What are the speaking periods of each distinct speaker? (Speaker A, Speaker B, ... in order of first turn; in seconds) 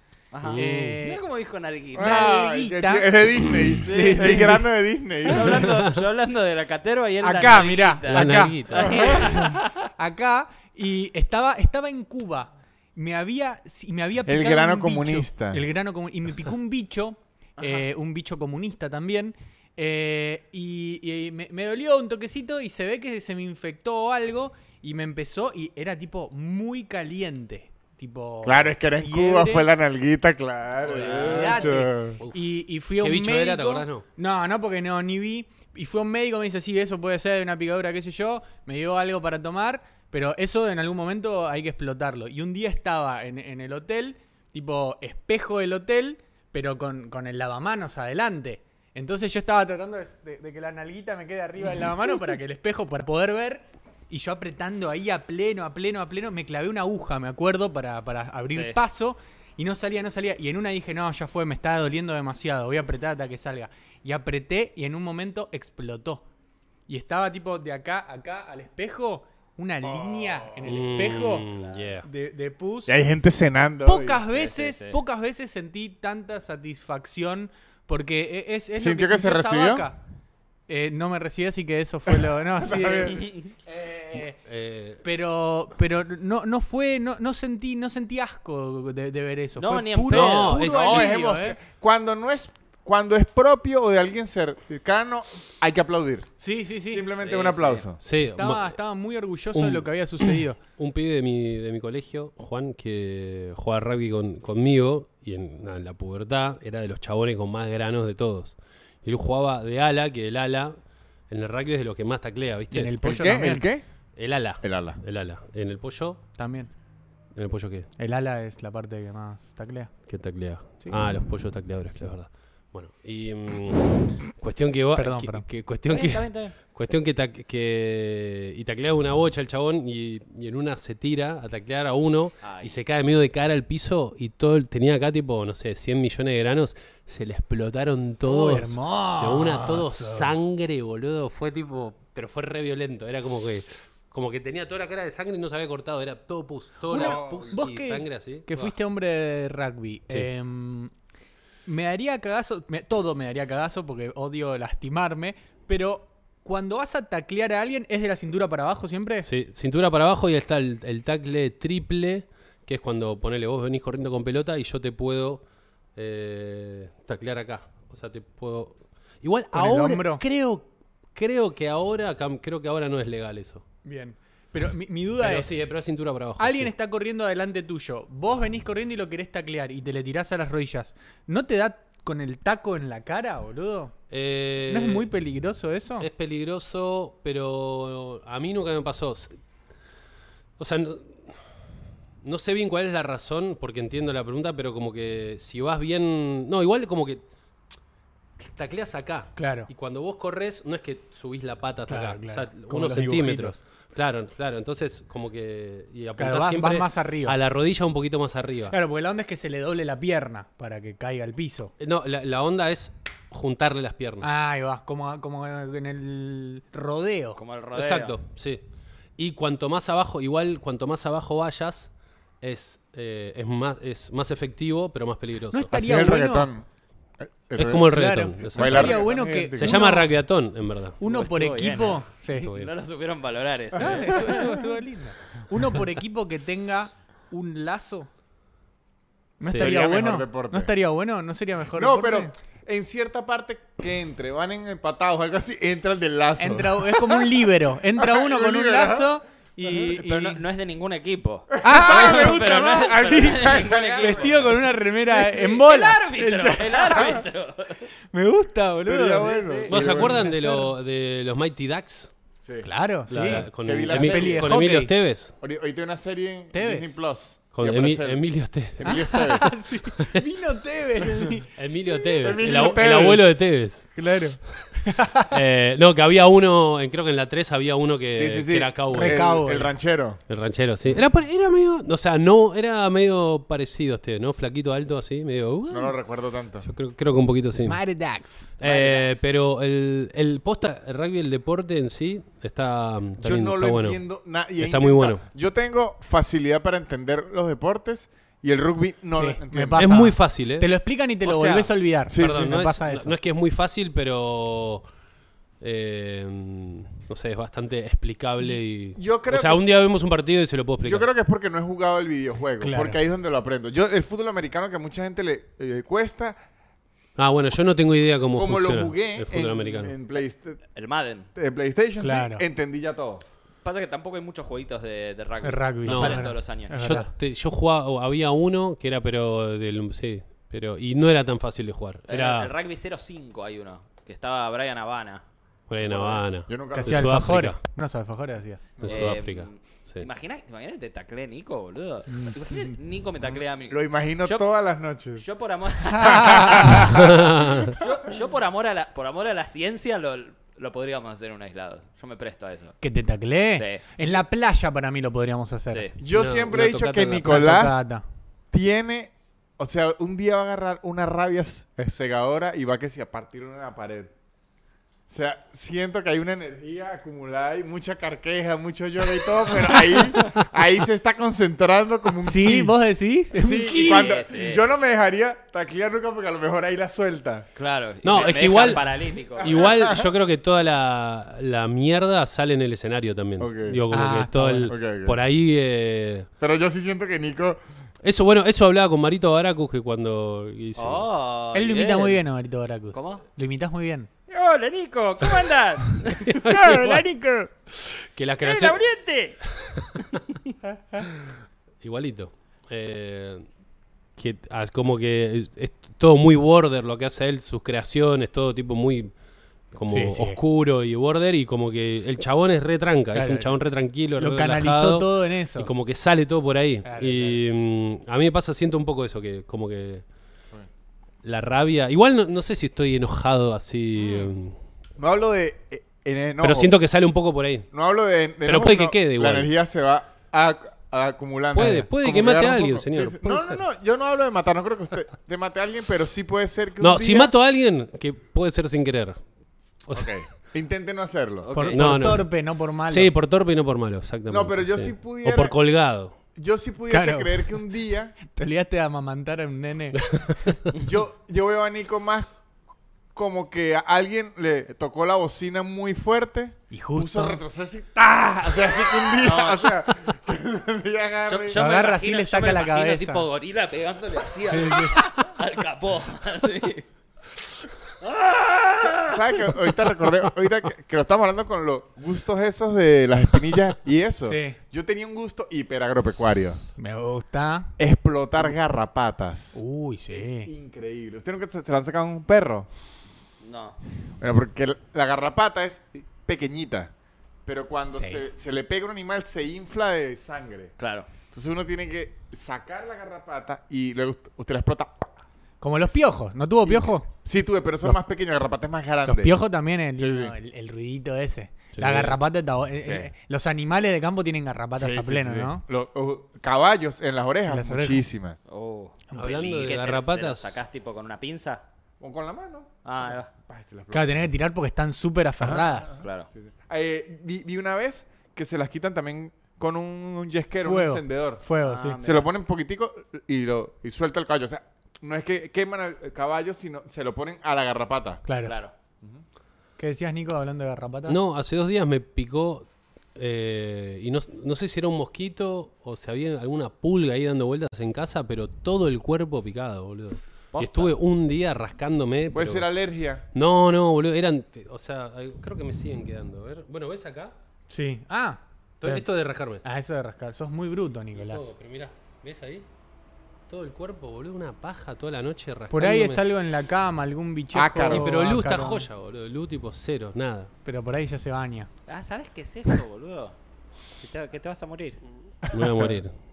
Speaker A: 0.3-2.3, 3.8-4.6, 5.2-9.9, 17.6-17.8, 30.9-31.7, 58.5-58.8, 71.4-72.0, 74.3-75.0, 83.0-83.5, 89.6-91.1, 97.2-97.9, 125.9-126.5, 132.4-132.8, 217.4-218.2, 231.0-234.6, 249.9-254.5, 255.0-257.9, 259.3-259.8, 288.7-289.1, 320.8-321.3, 323.6-326.9, 332.1-335.2, 335.9-336.2, 338.9-344.5, 345.2-347.1, 347.7-352.8, 353.6-353.8, 355.7-355.9, 373.7-374.6, 377.6-379.8, 390.8-392.2, 392.9-393.2, 394.3-397.5, 398.4-399.4, 441.4-441.9, 459.2-459.8, 461.2-466.9, 468.0-469.6, 483.4-483.8, 490.8-491.1, 508.5-511.6, 512.8-513.3, 516.0-516.3, 521.6-522.3, 528.5-528.7, 540.5-541.0, 561.9-563.4, 564.0-565.0
Speaker B: 0.4-1.0, 8.1-9.2, 33.0-34.0, 70.7-72.1, 84.5-85.0, 90.1-91.1, 98.0-98.8, 99.5-110.8, 111.3-113.0, 114.2-116.2, 117.3-117.9, 120.1-148.7, 159.2-165.4, 166.0-173.6, 175.2-176.7, 184.1-185.1, 186.0-189.3, 190.6-191.4, 192.2-197.2, 198.4-208.8, 211.8-214.3, 217.7-218.6, 219.2-225.7, 227.6-231.0, 232.3-232.7, 239.4-239.7, 259.7-262.1, 263.1-265.3, 267.5-269.5, 271.6-274.0, 275.3-279.2, 280.3-286.0, 286.6-287.8, 288.6-294.0, 294.6-295.2, 299.8-300.7, 301.3-304.9, 305.6-311.1, 317.2-319.9, 325.9-332.5, 335.7-337.6, 338.8-340.1, 346.9-347.8, 356.1-357.5, 378.0-378.9, 379.4-386.3, 388.0-391.1, 395.9-397.1, 397.7-398.8, 399.6-400.2, 401.8-403.5, 404.2-409.1, 409.7-420.0, 421.2-424.6, 426.4-427.7, 428.4-429.5, 431.5-433.6, 436.8-439.2, 439.9-440.1, 441.7-442.3, 442.9-446.1, 450.1-450.6, 501.8-502.2, 509.1-510.6, 531.1-542.7, 543.3-547.3, 548.8-549.6, 551.2-552.7, 553.5-556.2, 557.9-560.5, 565.5-566.1
Speaker C: 0.5-1.2, 2.0-3.1, 3.8-4.7, 7.2-29.7, 30.9-66.2, 66.9-71.5, 72.0-73.0, 73.8-80.0, 80.7-84.4, 85.0-91.6, 96.4-97.1, 98.3-100.6, 112.7-113.7, 116.4-116.7, 118.0-120.0, 125.0-125.5, 138.2-140.3, 146.9-150.9, 151.7-159.3, 169.5-170.2, 173.8-175.6, 176.4-183.9, 184.7-186.1, 199.4-199.7, 201.9-203.6, 206.2-207.4, 208.7-211.7, 214.2-217.4, 225.5-226.5, 227.9-230.1, 231.0-232.5, 233.8-238.1, 239.4-242.3, 246.4-250.4, 251.6-257.2, 258.1-260.7, 262.6-264.9, 266.5-267.0, 268.9-271.5, 274.0-275.3, 278.9-279.7, 287.6-288.6, 299.2-303.1, 312.6-313.0, 322.0-322.4, 325.4-327.1, 336.7-338.6, 342.1-342.4, 345.9-346.8, 352.8-355.9, 357.2-358.0, 372.2-374.2, 383.9-384.8, 391.5-394.1, 409.9-410.4, 413.1-413.6, 414.2-415.7, 416.8-417.4, 441.5-443.1, 446.9-447.6, 448.3-450.1, 456.7-457.4, 461.5-463.3, 464.5-465.0, 474.3-474.6, 476.8-477.7, 479.6-480.5, 487.9-488.2, 495.6-497.1, 499.1-505.6, 507.5-508.1, 513.9-516.0, 520.6-522.0, 528.3-528.5, 529.8-531.2, 547.7-549.1, 549.6-551.5, 555.7-558.9, 560.6-561.7
Speaker D: 1.9-5.7, 14.3-15.6, 28.4-32.2, 70.0-70.5, 72.9-74.2, 78.8-79.9, 82.6-83.2, 90.7-96.3, 96.9-98.0, 113.0-113.9, 114.6-115.0, 146.9-147.7, 225.7-226.7, 227.2-229.9, 239.5-240.7, 241.7-247.3, 248.0-249.2, 251.6-254.5, 258.8-260.3, 262.4-264.6, 265.4-269.6, 272.2-273.3, 278.1-280.2, 285.7-286.7, 293.2-300.0, 302.1-302.4, 308.4-309.6, 310.8-316.4, 318.3-320.6, 321.4-323.2, 336.5-337.2, 338.8-339.2, 343.7-345.2, 345.9-347.8, 356.0-357.8, 358.5-364.1, 365.1-372.8, 373.3-377.5, 379.4-380.1, 383.4-383.8, 384.7-385.2, 386.4-387.6, 425.0-426.8, 427.7-437.3, 439.9-441.5, 444.3-445.6, 446.4-448.1, 450.8-452.3, 453.1-461.6, 468.8-476.6, 477.8-479.6, 480.1-482.7, 484.2-486.9, 487.5-490.7, 491.3-495.1, 496.6-499.4, 500.0-500.3, 502.8-503.1, 504.8-508.4, 512.0-514.3, 515.4-521.4, 522.0-528.2, 542.3-543.2, 557.5-558.3, 565.5-566.0